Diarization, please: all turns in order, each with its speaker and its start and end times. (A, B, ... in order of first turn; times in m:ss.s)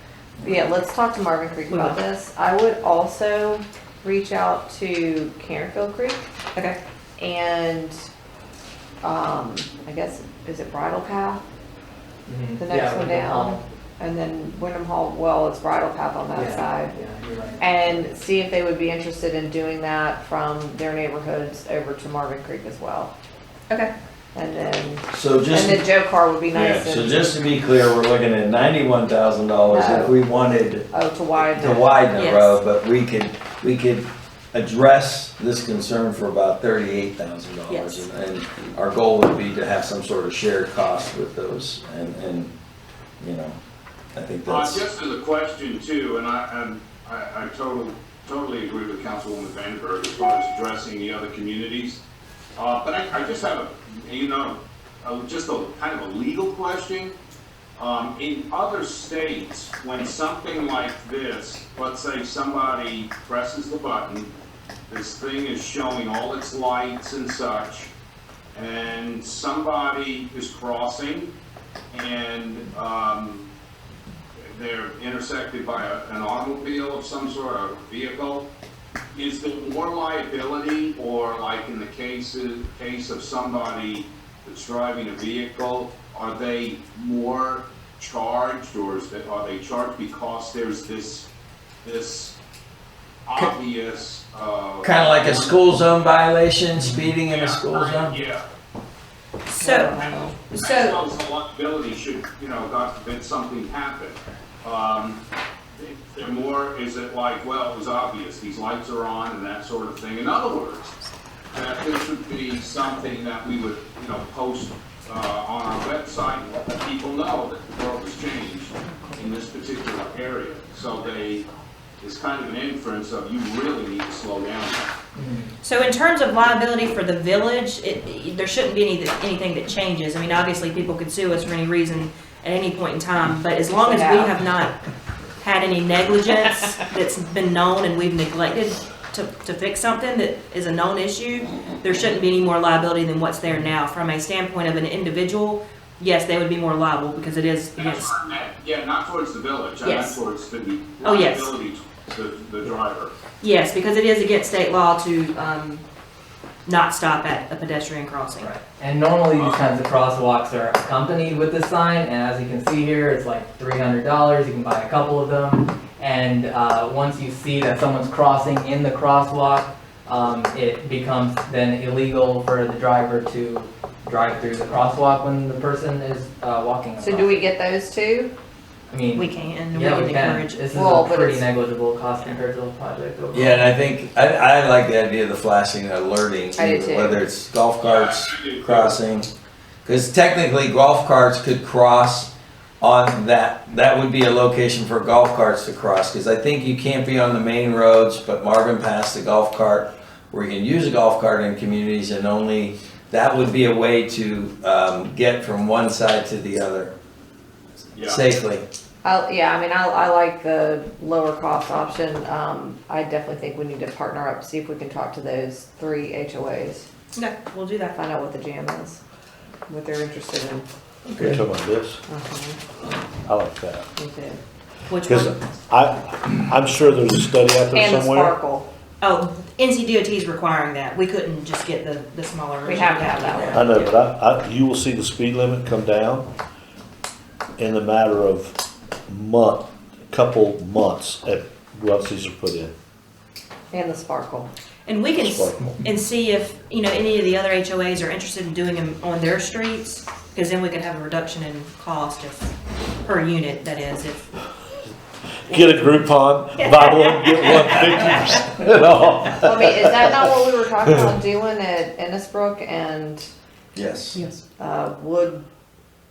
0:00.4-0:06.2 A
0:01.7-0:02.0 B
0:07.2-0:08.0 A
0:09.0-0:11.4 A
0:12.3-0:13.6 C
0:12.6-0:17.1 A
0:16.3-0:17.8 C
0:17.6-0:23.1 A
0:24.3-0:27.4 A
0:25.1-0:25.8 D
0:26.5-0:30.9 D
0:29.7-0:30.2 A
0:30.9-0:31.8 A
0:31.5-0:42.5 D
0:32.1-0:32.6 B
0:37.7-0:38.1 B
0:43.2-0:43.6 D
0:44.1-0:44.8 D
0:44.5-0:52.0 E
0:52.6-0:57.2 E
0:57.8-1:04.3 E
1:04.9-1:07.9 E
1:08.5-1:11.3 E
1:11.9-1:13.5 E
1:14.5-1:18.5 E
1:19.1-1:31.3 E
1:31.8-1:32.4 E
1:33.2-1:35.6 E
1:34.8-1:38.2 D
1:37.3-1:38.4 E
1:39.5-1:39.9 B
1:39.6-1:40.4 A
1:39.9-1:45.2 E
1:40.5-1:41.0 B
1:45.7-1:50.9 E
1:51.5-2:01.5 E
2:02.0-2:05.0 E
2:05.1-2:05.5 C
2:05.6-2:14.8 B
2:13.7-2:14.3 A
2:15.4-2:28.1 B
2:27.8-2:33.1 E
2:29.8-2:30.2 B
2:31.0-2:31.5 B
2:33.4-2:35.8 B
2:36.6-2:38.5 B
2:38.4-2:57.4 C
2:39.3-2:39.6 E
2:57.0-2:58.3 A
2:58.9-3:03.6 C
2:59.1-3:00.6 B
3:00.7-3:01.5 A
3:03.3-3:09.3 D
3:06.6-3:07.2 A
3:07.8-3:09.0 E
3:09.8-3:26.9 D
3:27.9-3:28.2 E
3:28.0-3:28.6 D
3:29.0-3:36.9 A
3:37.2-3:38.0 B
3:38.0-3:39.0 A
3:39.7-3:40.6 A
3:41.1-3:42.0 F
3:42.1-3:42.6 A
3:43.2-3:43.9 F
3:44.0-3:44.4 A
3:44.9-3:45.4 B
3:45.0-3:48.3 F
3:47.7-3:48.7 A
3:49.0-3:53.9 B
3:52.6-3:53.7 A
3:53.5-3:56.3 F
3:57.6-3:58.6 F
3:59.1-4:02.7 F
4:03.7-4:04.5 A
4:04.8-4:12.5 B
4:05.2-4:05.7 F
4:13.0-4:14.3 B
4:15.4-4:21.1 F
4:16.6-4:18.1 B
4:19.4-4:23.3 A
4:23.7-4:24.2 D
4:24.6-4:25.4 A